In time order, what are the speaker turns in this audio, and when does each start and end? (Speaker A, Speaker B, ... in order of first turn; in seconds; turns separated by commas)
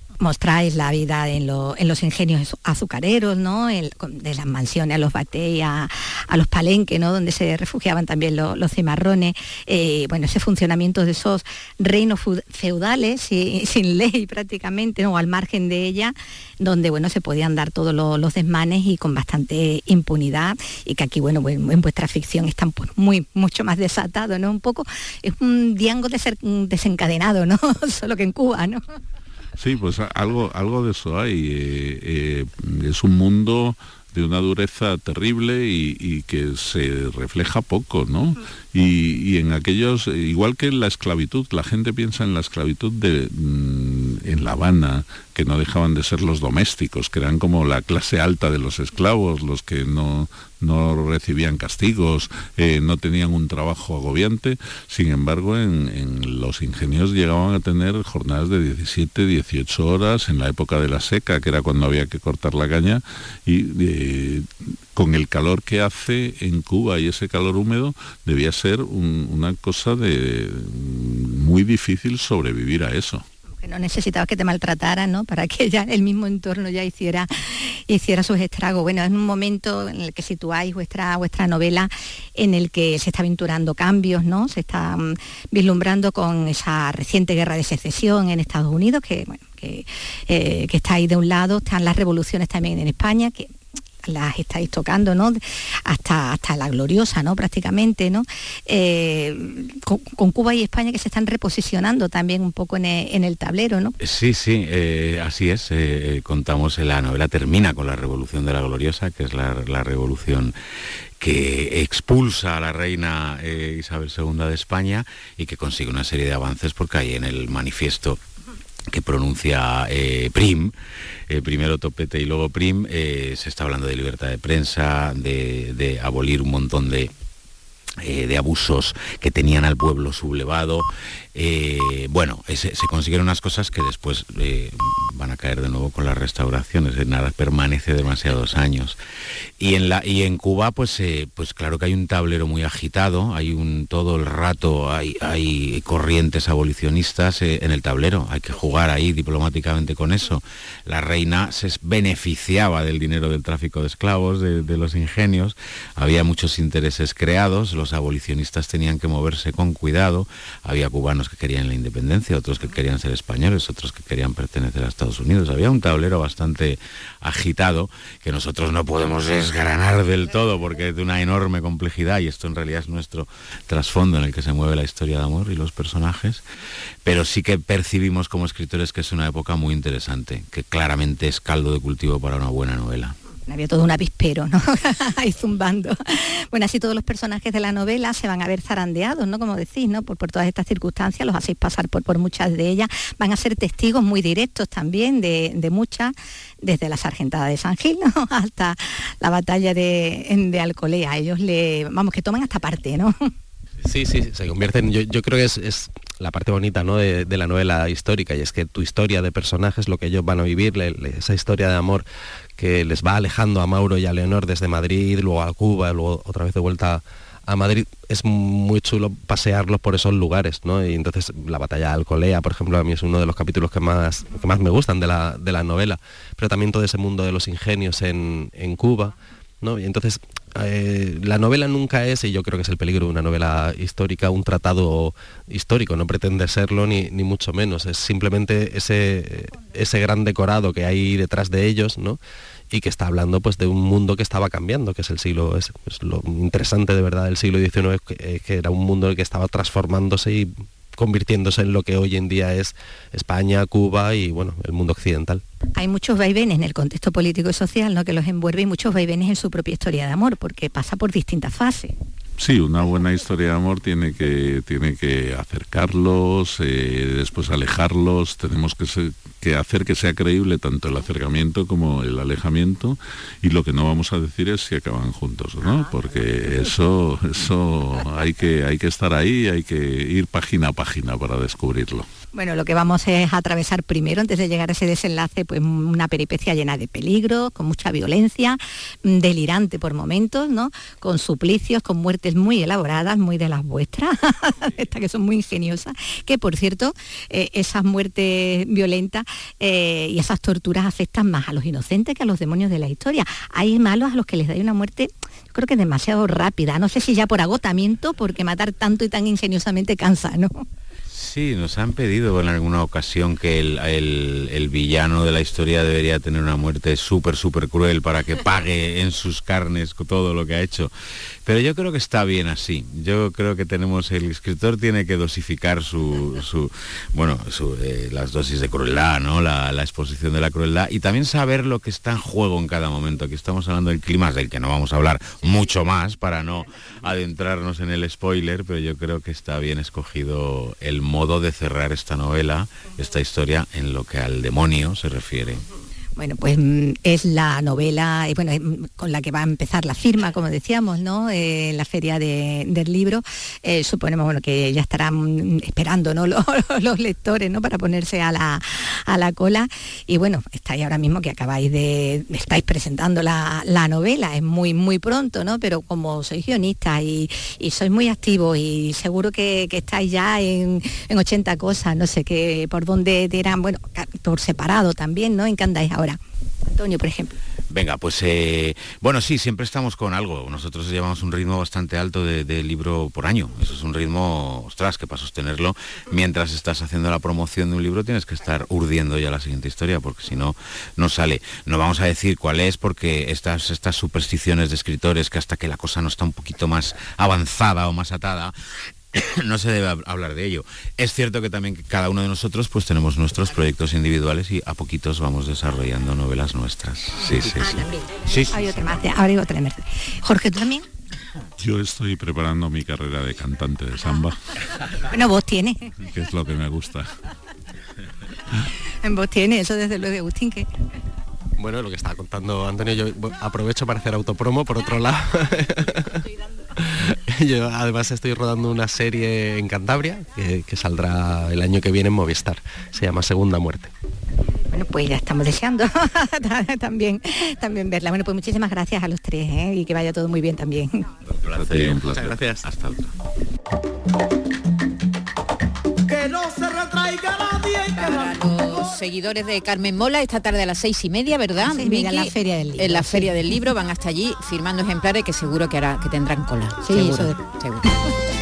Speaker A: 0.2-28.8, Speaker B: 29.6-73.2, Speaker A: 73.6-93.5, Speaker A: 94.0-104.0, Speaker C: 104.0-110.5, Speaker C: 111.2-118.2, Speaker C: 118.9-120.7, Speaker C: 121.3-127.1, Speaker C: 128.0-139.0, Speaker C: 139.6-176.4, Speaker C: 177.1-183.2, Speaker A: 183.5-203.2, Speaker D: 203.8-212.1, Speaker D: 212.6-255.4, Speaker A: 255.8-262.0, Speaker B: 262.4-282.1, Speaker A: 282.3-310.6, Speaker C: 311.1-320.9, Speaker C: 321.4-345.6, Speaker A: 346.2-377.4, Speaker C: 377.7-398.5, Speaker C: 399.1-408.8, Speaker A: 407.3-410.9, Speaker B: 411.6-414.5, Speaker A: 415.1-415.9, Speaker B: 416.0-417.1, Speaker A: 419.0-420.7, Speaker D: 421.6-426.2, Speaker D: 426.8-433.9, Speaker A: 434.7-441.0, Speaker C: 441.4-443.1, Speaker B: 441.6-442.4, Speaker E: 447.9-457.9, Speaker A: 451.6-453.5, Speaker A: 456.8-457.4